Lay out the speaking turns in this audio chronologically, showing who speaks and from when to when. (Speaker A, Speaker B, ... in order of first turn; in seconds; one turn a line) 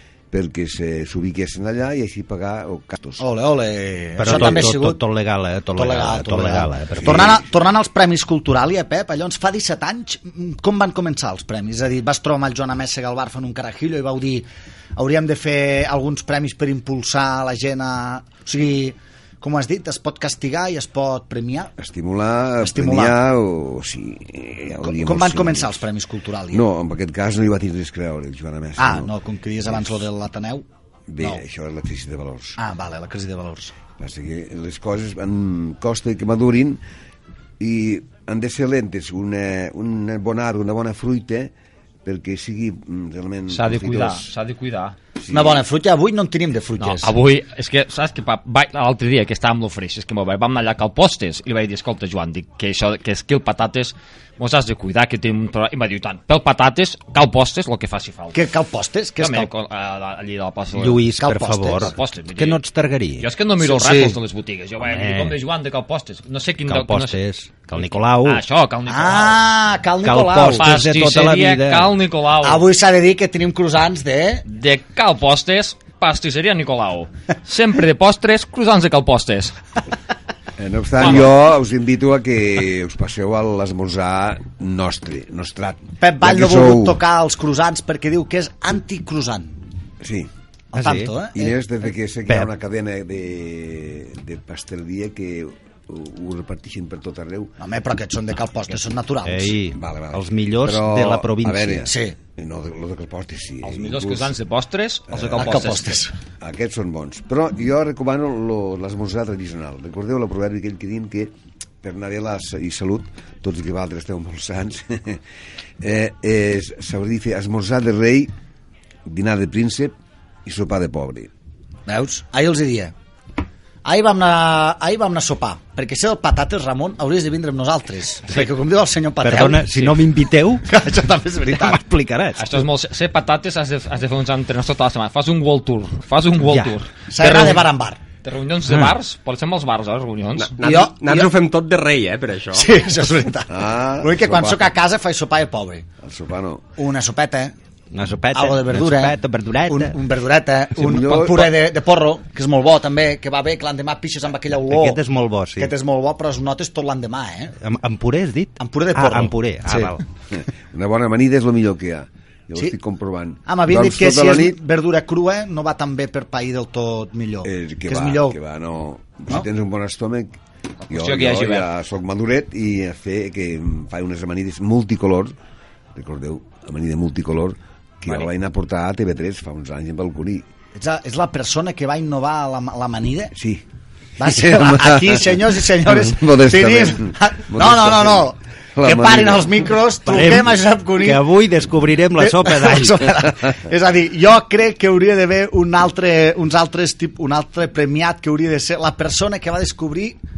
Speaker A: 0.3-3.2
Speaker B: 3.2-5.0
Speaker C: 4.2-7.4
Speaker B: 5.8-21.7
Speaker A: 7.0-7.2
Speaker A: 21.8-25.8
Speaker B: 22.6-23.1
Speaker B: 24.8-26.6
Speaker A: 26.5-29.1
Speaker B: 28.8-30.6
Speaker A: 29.6-30.1
Speaker A: 31.1-32.6
Speaker B: 32.6-33.7
Speaker A: 34.0-36.8
Speaker A: 37.6-41.5
Speaker A: 42.0-44.3
Speaker D: 43.5-44.9
Speaker A: 45.2-45.6
Speaker B: 45.3-47.1
Speaker D: 46.8-58.4
Speaker B: 58.3-59.5
Speaker D: 59.2-61.1
Speaker C: 60.7-63.2
Speaker B: 61.2-61.9
Speaker D: 61.8-62.6
Speaker D: 63.2-67.2
Speaker B: 63.6-64.2
Speaker C: 64.8-65.4
Speaker C: 66.7-68.4
Speaker D: 67.7-69.4
Speaker B: 68.9-70.7
Speaker C: 70.0-71.9
Speaker D: 70.5-72.7
Speaker B: 72.4-74.4
Speaker D: 74.5-79.5
Speaker A: 80.6-87.0
Speaker D: 81.0-81.3
Speaker B: 86.0-89.6
Speaker A: 90.0-90.3
Speaker B: 90.7-91.6
Speaker C: 90.7-91.1
Speaker A: 91.3-97.5
Speaker B: 97.6-99.6
Speaker C: 99.2-101.9
Speaker A: 99.7-104.3
Speaker B: 101.8-102.2
Speaker D: 103.6-106.0
Speaker A: 105.1-105.6
Speaker B: 105.4-106.1
Speaker A: 106.4-115.2
Speaker A: 115.8-118.3
Speaker A: 119.0-121.3
Speaker B: 121.8-122.9
Speaker B: 123.8-129.7
Speaker C: 129.2-130.7
Speaker B: 130.6-131.8
Speaker C: 131.5-132.6
Speaker D: 132.4-137.7
Speaker C: 136.4-136.7
Speaker B: 137.1-138.0
Speaker D: 138.2-140.6
Speaker C: 138.7-138.9
Speaker E: 140.3-142.7
Speaker B: 140.6-141.3
Speaker B: 142.5-145.9
Speaker A: 143.5-144.7
Speaker A: 146.0-146.7
Speaker B: 146.8-147.5
Speaker C: 147.9-150.0
Speaker B: 148.3-149.2
Speaker B: 149.7-155.0
Speaker A: 150.7-151.7
Speaker C: 154.7-155.7
Speaker B: 155.6-157.5
Speaker C: 157.6-160.0
Speaker B: 158.6-159.9
Speaker A: 160.3-164.6
Speaker B: 163.5-168.4
Speaker A: 167.4-170.4
Speaker D: 170.8-171.7
Speaker A: 170.9-175.3
Speaker A: 175.9-180.4
Speaker B: 180.7-183.3
Speaker A: 183.3-183.6
Speaker B: 184.2-191.2
Speaker A: 184.2-189.8
Speaker C: 190.1-193.1
Speaker B: 192.2-200.2